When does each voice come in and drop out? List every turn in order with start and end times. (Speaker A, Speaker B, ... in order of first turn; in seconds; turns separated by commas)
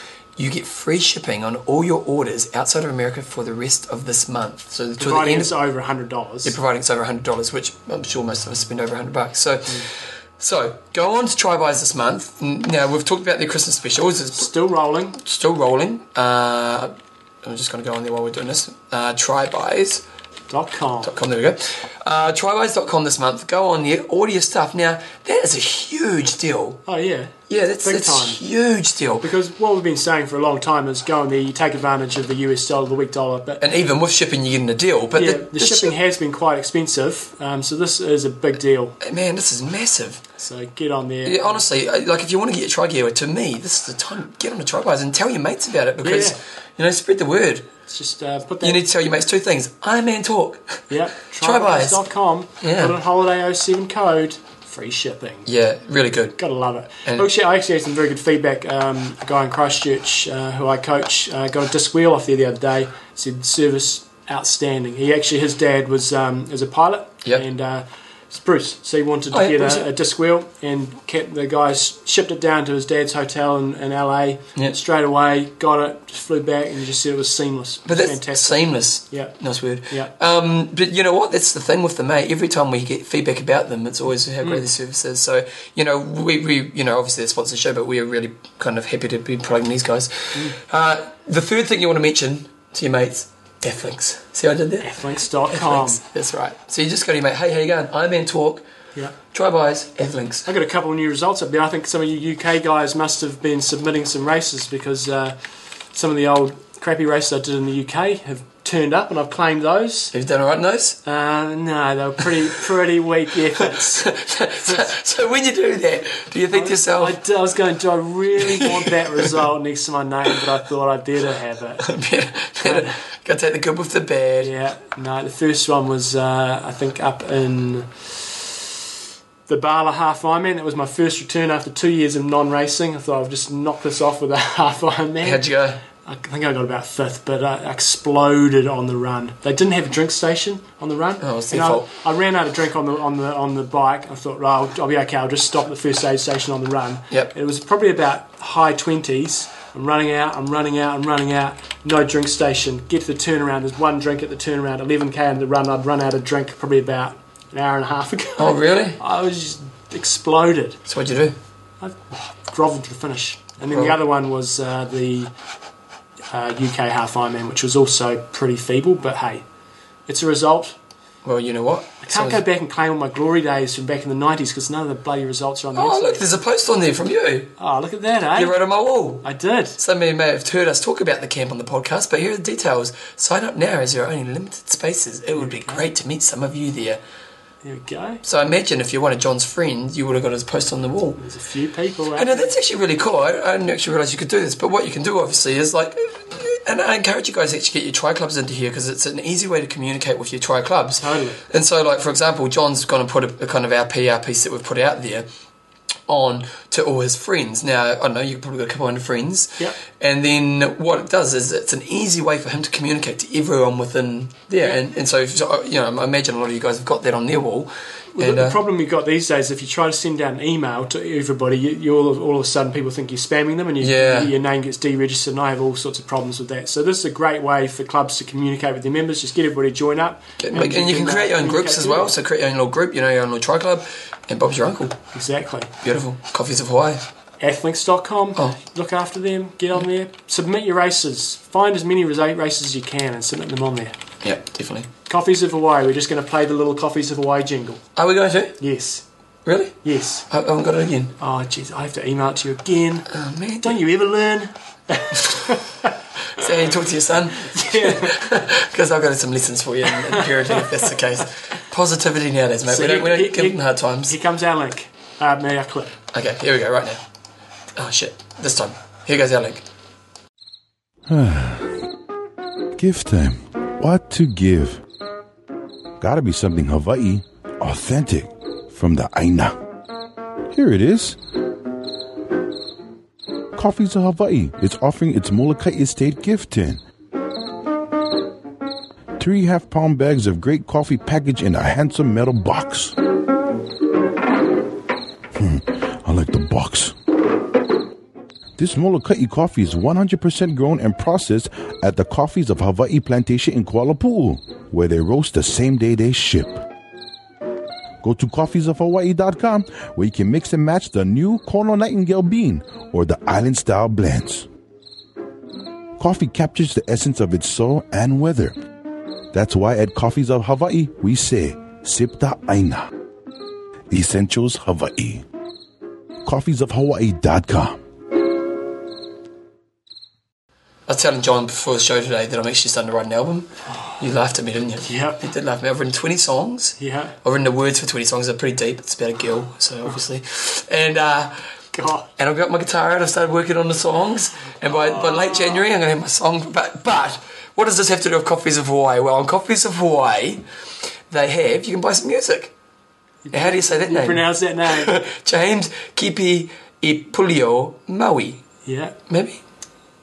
Speaker A: 0.4-5.5, Speaker B: 5.0-6.6, Speaker A: 6.4-14.5, Speaker B: 14.3-15.2, Speaker A: 15.2-20.0, Speaker B: 20.5-21.2, Speaker A: 21.0-26.8, Speaker B: 26.9-28.4, Speaker A: 27.5-29.2, Speaker B: 29.2-33.6, Speaker A: 33.6-35.9, Speaker B: 35.1-39.0, Speaker A: 39.0-40.2, Speaker B: 40.4-41.6, Speaker A: 41.2-47.7, Speaker B: 46.0-46.4, Speaker B: 47.9-48.8, Speaker A: 48.6-50.9, Speaker B: 50.9-55.5, Speaker A: 51.4-52.0, Speaker A: 52.6-52.9, Speaker A: 55.5-56.4, Speaker B: 56.4-79.3, Speaker A: 69.3-69.9, Speaker A: 77.9-94.9, Speaker B: 84.4-84.7, Speaker B: 94.8-96.0, Speaker A: 95.5-98.6, Speaker A: 99.3-100.5, Speaker B: 100.5-105.4, Speaker B: 105.9-110.1, Speaker A: 110.1-111.0, Speaker B: 111.0-115.0, Speaker A: 113.6-117.2, Speaker B: 116.5-121.8, Speaker A: 118.3-119.3, Speaker A: 121.8-124.5, Speaker B: 122.6-122.9, Speaker B: 124.4-128.7, Speaker B: 129.5-160.8, Speaker A: 135.2-135.8, Speaker A: 141.2-141.9, Speaker A: 158.4-159.0, Speaker A: 160.9-161.3, Speaker B: 161.8-165.3, Speaker A: 163.7-163.9, Speaker B: 166.3-169.4, Speaker B: 170.1-170.8, Speaker A: 171.2-172.4, Speaker B: 172.0-176.2, Speaker A: 175.7-177.5, Speaker B: 177.6-178.6, Speaker A: 178.3-179.2, Speaker B: 179.2-179.8, Speaker A: 179.8-187.0, Speaker B: 185.3-185.8, Speaker B: 187.6-188.2, Speaker A: 188.2-191.2, Speaker B: 191.2-192.5, Speaker A: 192.2-205.3, Speaker B: 201.0-201.4, Speaker A: 206.1-218.6, Speaker B: 218.1-232.2, Speaker A: 223.8-224.3, Speaker A: 230.4-235.0, Speaker B: 235.1-235.7, Speaker A: 235.8-237.0, Speaker B: 237.4-244.0, Speaker A: 244.2-244.9, Speaker B: 245.1-247.8, Speaker A: 247.9-248.6, Speaker B: 248.6-249.0, Speaker A: 249.4-249.8, Speaker B: 249.8-250.3, Speaker A: 250.3-251.1, Speaker B: 251.2-253.1, Speaker A: 253.1-253.8, Speaker B: 253.6-256.7, Speaker A: 255.1-255.6, Speaker A: 256.2-264.2, Speaker B: 257.3-258.2, Speaker B: 259.8-261.2, Speaker B: 262.6-265.9, Speaker A: 266.1-267.0, Speaker A: 267.8-269.6, Speaker C: 271.1-271.8, Speaker C: 272.8-274.8, Speaker C: 276.0-279.6, Speaker C: 280.5-281.2, Speaker C: 283.6-286.8, Speaker C: 289.2-292.9, Speaker C: 295.3-296.9, Speaker C: 298.6-306.6, Speaker C: 308.0-314.5, Speaker C: 316.0-318.5, Speaker C: 319.3-322.9, Speaker C: 323.9-325.2, Speaker C: 326.2-327.8, Speaker A: 330.9-341.4, Speaker B: 333.7-334.0, Speaker B: 334.8-335.2, Speaker B: 336.8-337.1, Speaker B: 341.7-342.1, Speaker A: 342.1-350.4, Speaker B: 344.6-345.6, Speaker A: 351.1-352.5, Speaker B: 353.2-355.0, Speaker A: 353.3-358.4, Speaker B: 358.6-359.0, Speaker A: 359.1-359.4